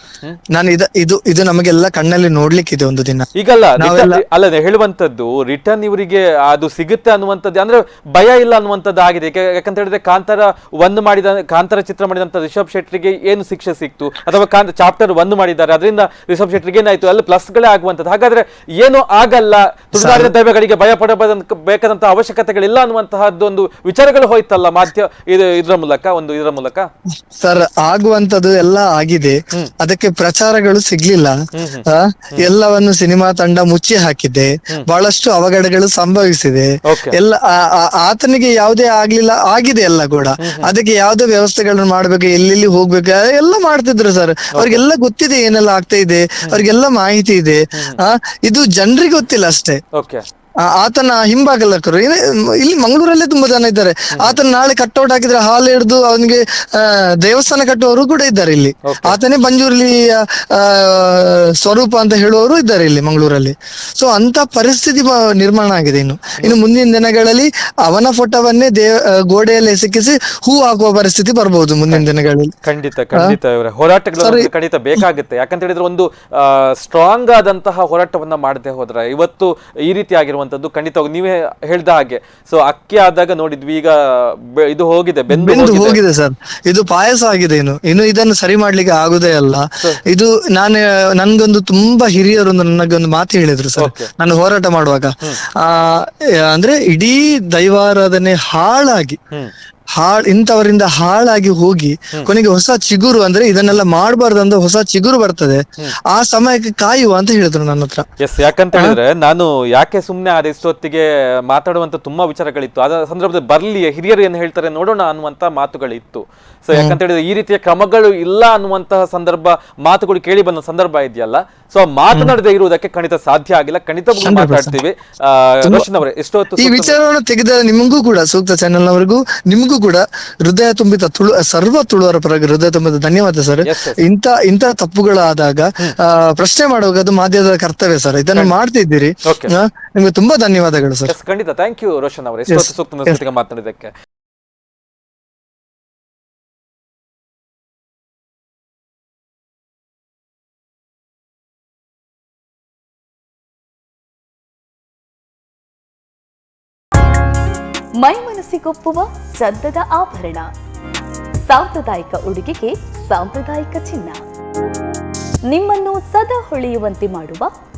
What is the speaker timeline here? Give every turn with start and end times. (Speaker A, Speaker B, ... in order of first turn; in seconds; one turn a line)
Speaker A: 0.5-4.2
Speaker B: 3.4-26.9
Speaker A: 20.0-20.3
Speaker A: 27.4-31.4
Speaker B: 31.5-32.5
Speaker A: 31.9-49.8
Speaker B: 36.9-37.2
Speaker B: 40.4-40.7
Speaker B: 44.5-44.8
Speaker B: 47.7-48.0
Speaker B: 50.0-50.2
Speaker A: 50.6-72.5
Speaker B: 54.1-54.4
Speaker B: 58.9-59.2
Speaker B: 72.6-86.0
Speaker A: 74.2-75.0
Speaker A: 85.3-99.2
Speaker B: 93.8-94.1
Speaker A: 100.0-108.1
Speaker B: 108.2-127.0
Speaker A: 122.1-122.4
Speaker A: 124.2-124.8
Speaker A: 125.6-125.9
Speaker A: 126.6-141.1
Speaker B: 133.6-134.0
Speaker B: 139.3-139.6
Speaker B: 141.1-143.9
Speaker A: 142.5-143.2
Speaker C: 158.0-160.5
Speaker C: 161.5-164.2
Speaker C: 165.5-167.5